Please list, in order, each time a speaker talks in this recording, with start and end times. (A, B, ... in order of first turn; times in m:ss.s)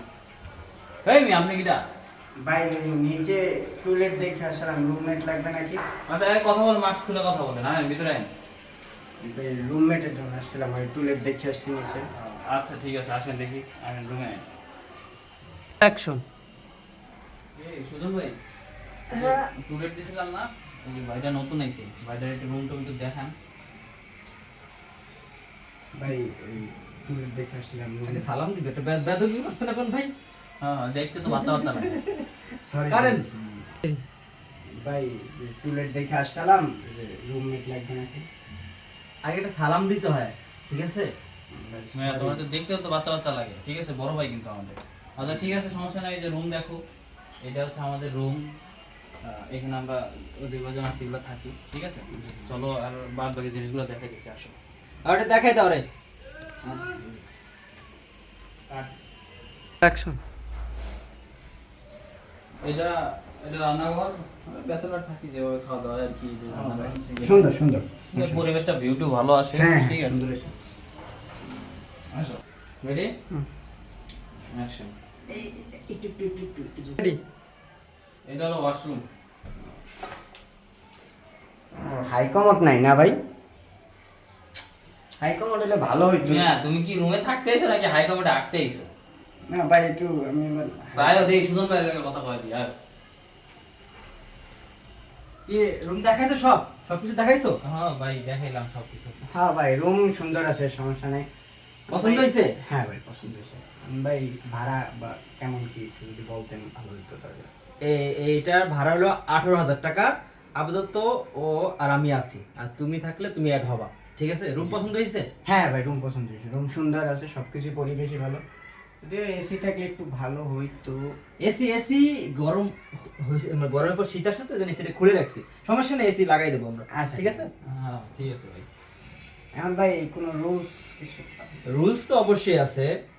0:01.0-0:01.8 A
0:02.4-0:05.8 B
0:06.1-0:08.3 A
0:09.2-0:12.1 B
0:12.1-0:14.4 A
0:17.6-0:18.4 A
0:19.1-0:23.3 A
0:19.1-0:19.4 C
0:25.9-0:28.2 B
0:28.1-0:30.1 C
0:30.6-0:32.0 A
0:31.3-0:32.2 C
0:32.6-0:33.8 B
0:32.9-0:33.2 C
0:34.8-0:38.2 B
0:39.2-0:41.1 C
0:41.5-0:42.4 B
0:41.9-0:46.8 A
0:47.4-0:48.5 A
0:49.2-0:54.6 A
0:55.0-0:55.8 C
0:56.6-0:57.1 A
0:59.8-1:00.2 B
1:02.6-1:07.5 A
1:06.5-1:08.4 B
1:08.1-1:10.2 A
1:09.5-1:10.5 B
1:12.1-1:13.1 A
1:14.5-1:14.9 A
1:15.3-1:17.2 B
1:18.2-1:19.0 A
1:21.8-1:23.2 B
1:25.2-1:26.5 B
1:26.3-1:28.9 A
1:29.5-1:31.3 B
1:30.9-1:32.7 A
1:35.5-1:37.6 C
1:37.6-1:39.2 A
1:39.3-1:41.2 B
1:41.9-1:47.5 B
1:41.9-1:42.5 C
1:47.8-1:55.2 C
1:55.4-1:58.4 B
1:59.0-2:01.1 B
2:01.4-2:07.5 C
2:06.9-2:07.5 B
2:07.6-2:08.6 A
2:09.5-2:11.6 B
2:11.6-2:12.9 C